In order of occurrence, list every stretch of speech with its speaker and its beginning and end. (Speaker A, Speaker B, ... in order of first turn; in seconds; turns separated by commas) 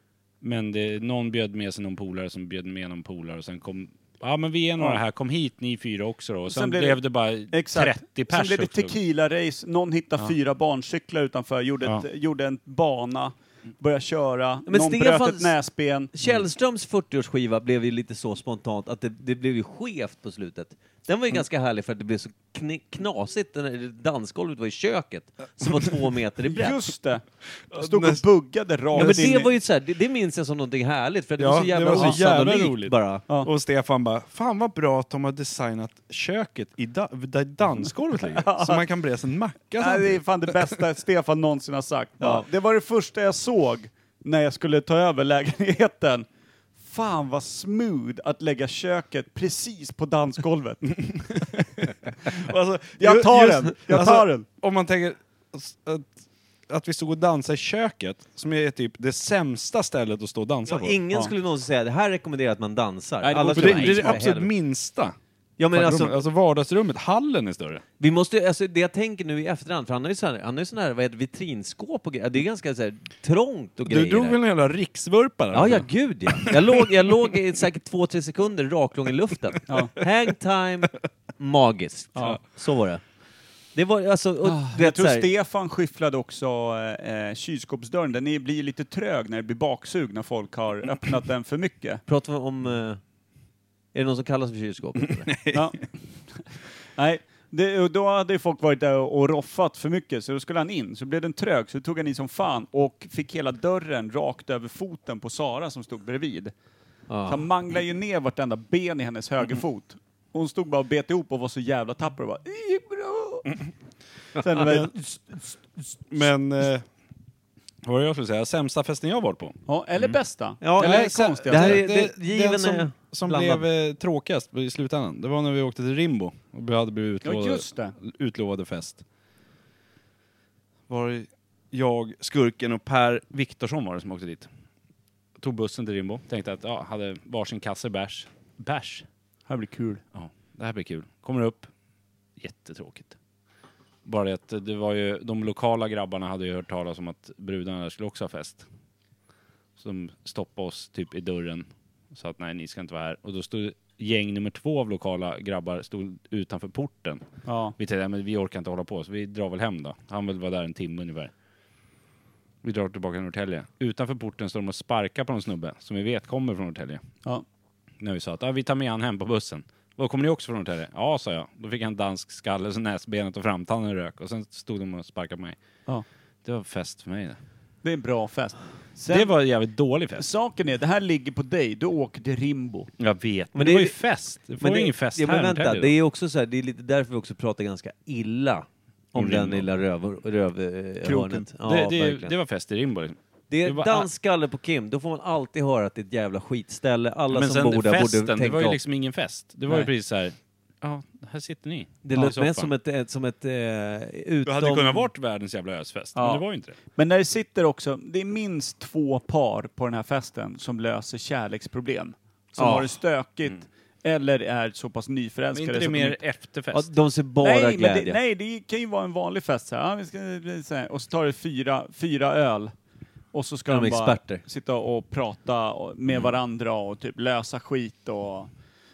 Speaker A: 0.4-8.9, Speaker B: 6.5-16.1, Speaker C: 14.7-15.5, Speaker C: 16.1-26.8, Speaker B: 26.4-29.5, Speaker A: 27.7-28.2, Speaker A: 28.9-29.3, Speaker C: 28.9-33.2, Speaker A: 31.4-40.6, Speaker B: 31.9-32.2, Speaker B: 38.2-38.8, Speaker B: 39.8-46.2, Speaker B: 46.8-51.6, Speaker A: 51.1-61.0, Speaker B: 53.0-54.5, Speaker C: 60.6-64.5, Speaker B: 63.2-64.2, Speaker A: 63.5-65.2, Speaker C: 65.6-66.1, Speaker A: 65.7-67.8, Speaker C: 68.0-74.4, Speaker A: 73.9-76.9, Speaker C: 75.5-83.0, Speaker C: 83.7-85.3, Speaker B: 84.4-92.0, Speaker C: 92.1-93.0, Speaker C: 93.9-95.3, Speaker A: 95.2-95.7, Speaker B: 95.5-96.4, Speaker B: 97.0-106.5, Speaker C: 107.1-107.4, Speaker B: 107.3-113.7, Speaker B: 114.3-116.0, Speaker A: 114.7-114.9, Speaker A: 116.1-116.8, Speaker A: 117.8-119.5, Speaker B: 119.7-121.8, Speaker C: 120.6-123.7, Speaker A: 120.8-129.0, Speaker B: 127.2-128.0, Speaker A: 130.9-134.5, Speaker A: 135.4-139.1, Speaker B: 139.5-140.0, Speaker A: 140.1-141.7, Speaker A: 142.4-143.2, Speaker A: 144.0-148.7, Speaker A: 149.8-157.2, Speaker B: 157.4-157.7, Speaker A: 157.8-161.3, Speaker A: 162.6-167.1, Speaker A: 168.0-175.6, Speaker A: 176.4-177.4, Speaker B: 177.8-179.3, Speaker A: 179.1-180.3, Speaker B: 180.2-182.9, Speaker A: 183.0-185.9, Speaker C: 183.5-184.0, Speaker C: 184.6-192.3, Speaker A: 189.1-189.7, Speaker B: 191.0-191.5, Speaker A: 191.6-194.1, Speaker C: 193.5-198.8, Speaker A: 197.3-202.7, Speaker C: 202.0-205.0, Speaker A: 204.4-206.8, Speaker B: 206.1-206.4, Speaker B: 206.9-216.2, Speaker C: 212.6-212.9, Speaker A: 215.5-216.9, Speaker C: 216.7-218.2, Speaker B: 217.4-222.7, Speaker B: 223.3-228.5, Speaker C: 223.7-224.4